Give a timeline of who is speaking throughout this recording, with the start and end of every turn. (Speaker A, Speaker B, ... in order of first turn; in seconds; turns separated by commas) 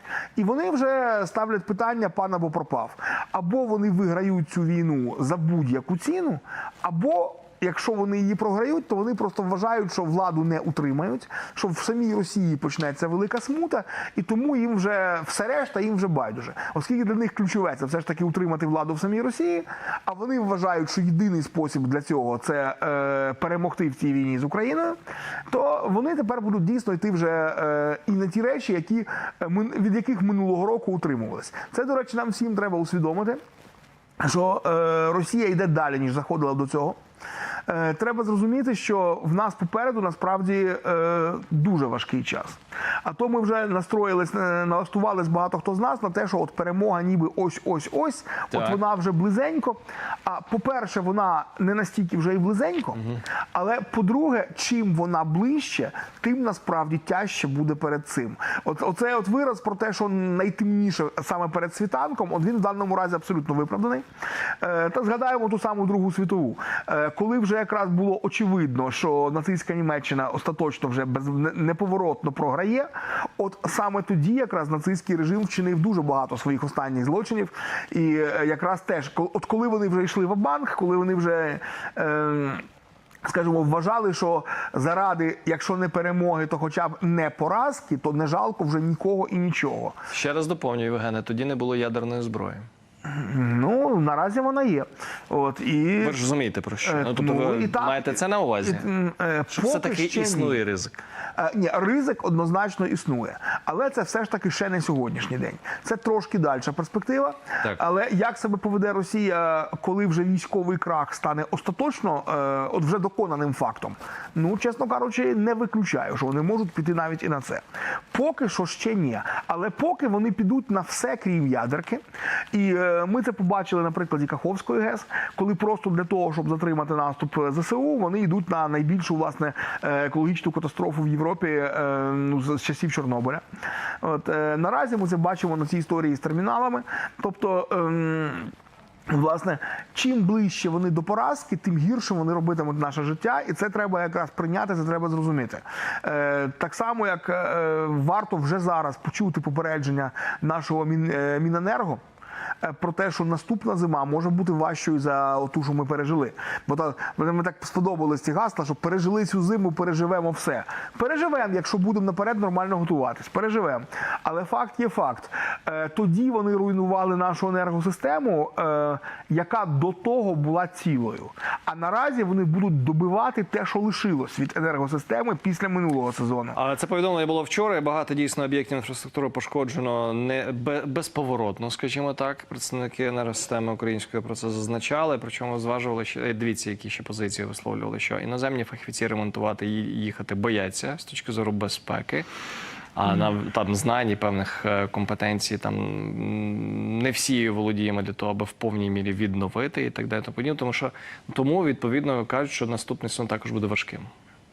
Speaker A: 0.3-25.0, Speaker A: 25.5-33.4, Speaker A: 34.2-37.0, Speaker A: 37.6-64.0, Speaker B: 48.5-48.8, Speaker A: 64.6-82.6, Speaker A: 83.2-90.0, Speaker B: 90.1-92.7, Speaker A: 93.0-96.2, Speaker B: 96.0-98.9, Speaker A: 96.8-100.6, Speaker B: 99.5-101.0, Speaker A: 101.4-133.4, Speaker A: 134.0-138.5, Speaker A: 139.1-152.0, Speaker A: 152.6-176.6, Speaker B: 176.6-192.3, Speaker B: 192.9-204.1